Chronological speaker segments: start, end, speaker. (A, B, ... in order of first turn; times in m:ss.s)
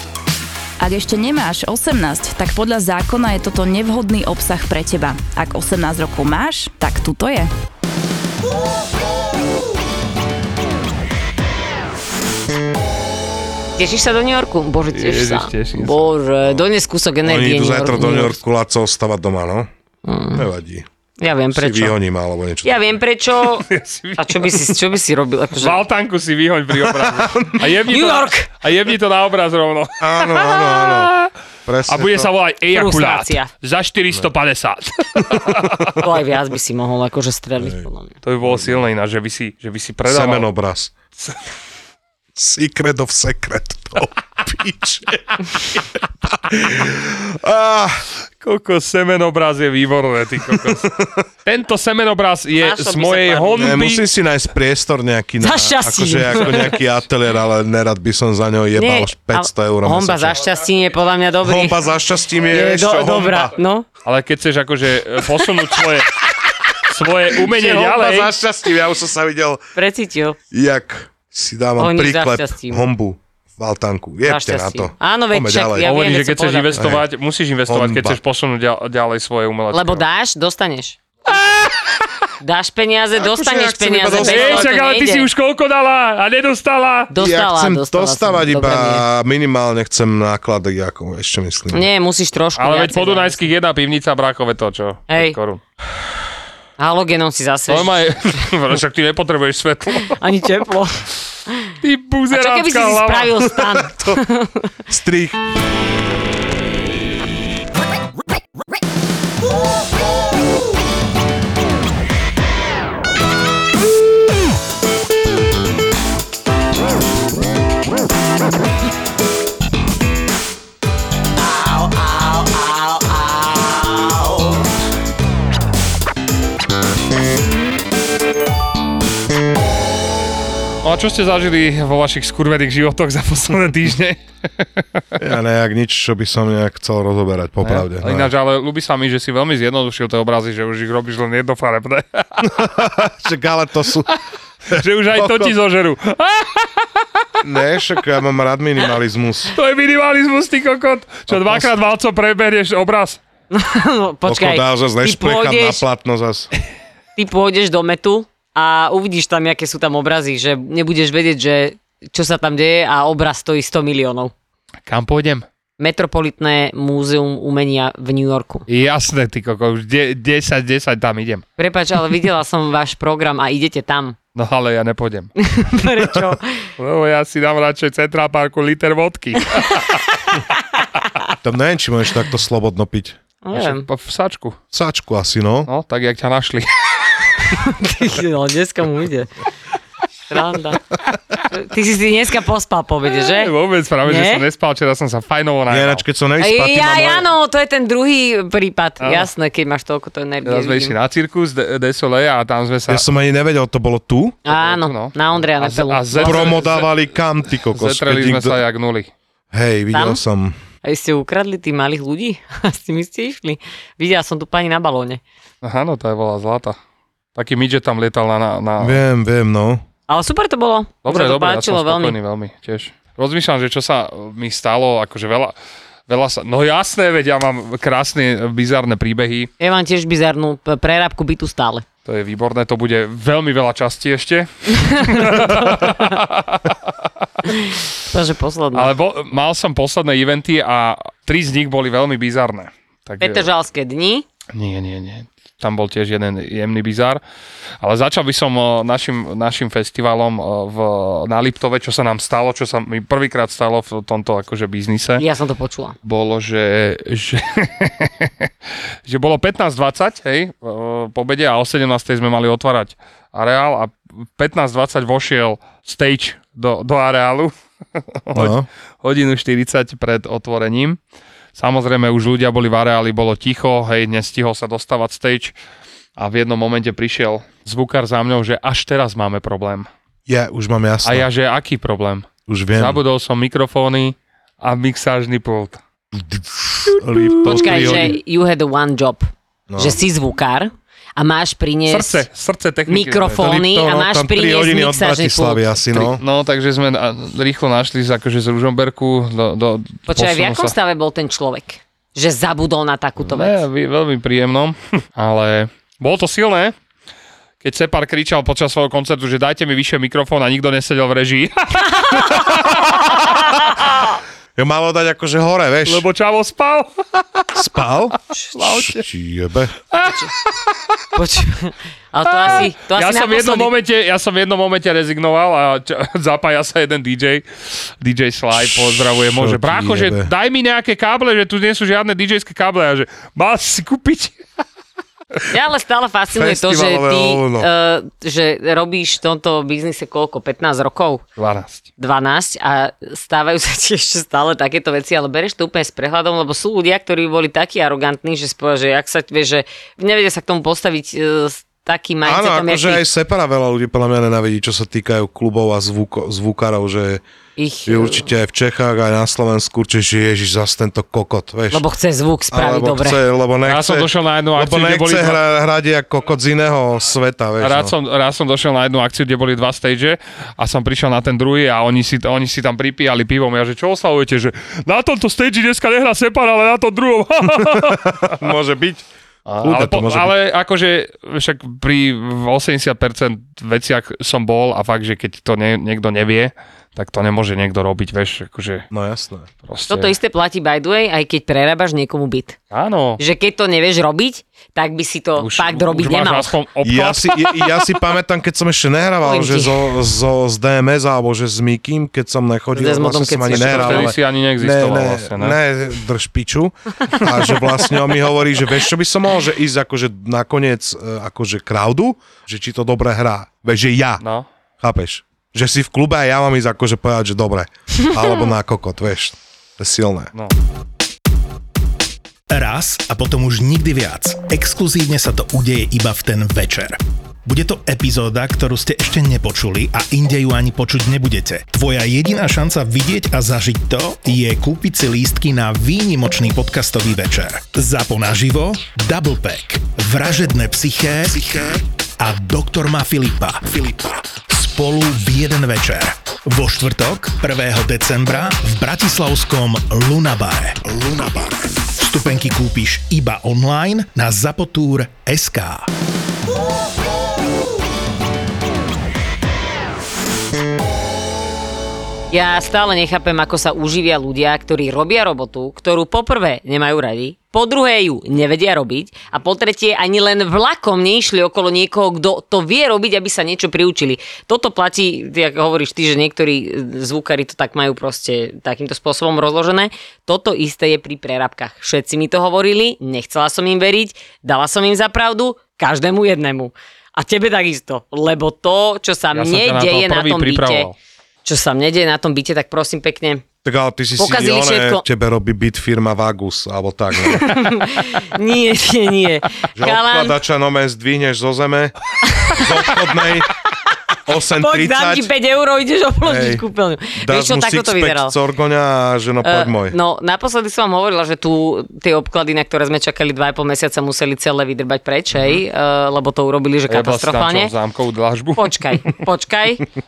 0:00.8-0:07.5 A
0:13.8-0:18.4 B
0:14.9-0:16.1 C
0:17.2-0:19.7 D
0:20.0-0:20.5 B
0:20.3-0:20.9 D
0:21.2-0:22.0 B
0:21.5-0:23.0 D
0:22.6-0:23.7 B
0:23.5-0:24.7 C
0:24.2-0:25.8 B
0:25.6-0:31.3 C
0:26.8-0:27.5 D
0:27.9-0:28.5 B
0:30.0-0:32.3 D
0:31.9-0:36.0 C
0:32.7-0:33.5 B
0:35.2-0:36.0 D
0:35.9-0:38.1 B
0:38.2-0:40.5 C
0:38.4-0:38.8 D
0:40.1-0:41.0 D
0:42.4-0:48.1 D
0:48.4-0:50.9 C
0:50.4-0:51.2 D
0:51.4-0:54.0 C
0:52.6-0:53.8 B
0:53.6-1:00.5 D
0:55.4-0:56.8 B
0:58.8-1:01.8 B
1:01.4-1:03.5 D
1:02.5-1:03.9 B
1:04.0-1:06.2 C
1:06.8-1:08.3 C
1:07.3-1:09.6 D
1:09.8-1:10.4 B
1:10.5-1:15.9 D
1:11.8-1:12.9 B
1:14.2-1:16.8 B
1:15.8-1:20.0 C
1:16.7-1:17.0 D
1:17.7-1:18.2 D
1:19.7-1:21.0 B
1:21.4-1:21.8 C
1:22.4-1:25.3 B
1:23.2-1:24.8 D
1:24.2-1:27.1 C
1:27.1-1:29.1 B
1:27.2-1:31.9 D
1:31.7-1:33.4 B
1:32.6-1:35.6 C
1:35.1-1:35.4 B
1:36.8-1:38.0 B
1:37.7-1:40.2 C
1:40.1-1:41.7 B
1:41.8-1:43.6 C
1:42.3-1:44.7 B
1:44.9-1:45.4 D
2:10.8-2:15.1 C
2:15.2-2:18.3 D
2:17.6-2:22.7 C
2:22.4-2:24.1 D
2:24.7-2:25.5 D
2:24.7-2:27.2 C
2:27.4-2:29.5 D
2:29.5-2:33.2 C
2:31.3-2:31.7 D
2:33.5-2:35.8 B
2:34.3-2:36.5 D
2:37.2-2:44.3 B
2:44.9-2:45.5 C
2:45.8-2:48.7 B
2:48.7-2:51.4 C
2:51.6-2:54.2 B
2:54.4-2:55.3 C
2:55.4-2:56.7 B
2:56.8-3:00.0 C
3:01.4-3:03.2 D
3:03.4-3:03.9 B
3:03.5-3:04.6 C
3:04.7-3:05.7 D
3:05.7-3:06.7 C
3:07.4-3:09.3 B
3:10.3-3:10.8 B
3:11.5-3:13.5 B
3:13.2-3:16.0 C
3:14.0-3:14.4 B
3:15.7-3:17.3 D
3:16.4-3:21.0 B
3:19.0-3:19.3 C
3:20.4-3:23.1 C
3:22.9-3:24.4 D
3:24.5-3:26.6 B
3:24.5-3:27.0 C
3:26.2-3:28.6 D
3:27.6-3:29.1 C
3:29.5-3:30.6 D
3:29.9-3:30.2 B
3:30.8-3:35.2 B
3:35.6-3:36.8 C
3:37.4-3:39.0 C
3:38.8-3:39.8 D
3:40.1-3:42.2 B
3:41.0-3:45.5 C
3:46.1-3:49.5 C
3:49.6-3:51.9 B
3:52.0-3:57.0 C
3:54.8-3:56.1 B
3:57.5-3:58.9 B
3:58.7-4:03.5 C
4:03.2-4:04.2 B
4:04.5-4:07.2 C
4:07.8-4:15.2 C
4:15.2-4:16.0 B
4:16.0-4:18.5 C
4:19.1-4:31.0 C
4:28.3-4:28.7 D
4:31.6-4:35.5 C
4:36.2-4:39.9 C
4:40.3-4:41.3 D
4:41.0-4:45.8 C
4:42.5-4:43.0 D
4:46.1-4:48.2 D
4:47.4-4:49.3 B
4:47.4-4:48.1 C
4:49.7-4:50.0 D
4:49.8-4:52.2 B
4:51.9-4:53.4 C
4:52.9-4:55.7 B
4:53.2-4:56.2 D
4:55.9-5:00.7 C
5:00.1-5:03.6 B
5:03.3-5:06.7 C
5:07.6-5:13.8 C
5:12.0-5:14.0 B
5:14.6-5:16.0 D
5:15.9-5:17.5 C
5:17.5-5:19.8 D
5:18.5-5:19.1 C
5:19.9-5:21.0 C
5:20.0-5:20.3 B
5:21.2-5:23.7 B
5:22.3-5:27.4 C
5:28.0-5:34.4 C
5:28.5-5:30.3 D
5:35.5-5:41.2 B
5:36.3-5:37.7 D
5:41.4-5:41.9 C
5:42.0-5:53.1 B
5:52.2-5:57.2 D
5:57.6-5:58.3 B
5:57.9-6:01.8 D
6:01.7-6:03.2 B
6:02.5-6:07.9 D
6:03.7-6:05.4 C
6:07.6-6:18.4 C
6:17.6-6:19.1 D
6:19.5-6:28.9 C
6:19.6-6:20.3 D
6:28.9-6:29.5 D
6:29.6-6:30.1 C
6:29.9-6:32.6 B
6:32.7-6:33.2 C
6:33.2-6:36.6 B
6:35.4-6:37.5 C
6:36.8-6:54.2 D
6:39.2-6:39.9 B
6:42.7-6:44.1 B
6:43.6-6:45.6 C
6:54.2-6:54.5 C
6:54.8-7:00.3 D
7:02.5-7:35.9 E
7:42.3-8:10.9 B
8:09.3-8:11.0 C
8:11.4-8:13.4 B
8:13.6-8:17.6 D
8:14.2-8:15.0 B
8:17.2-8:20.4 B
8:19.8-8:22.0 D
8:22.2-8:22.9 B
8:22.5-8:23.5 D
8:24.3-8:25.3 D
8:24.5-8:28.4 B
8:26.2-8:26.6 D
8:27.2-8:30.0 D
8:29.4-8:37.7 B
8:36.9-8:38.8 C
8:38.6-8:39.9 B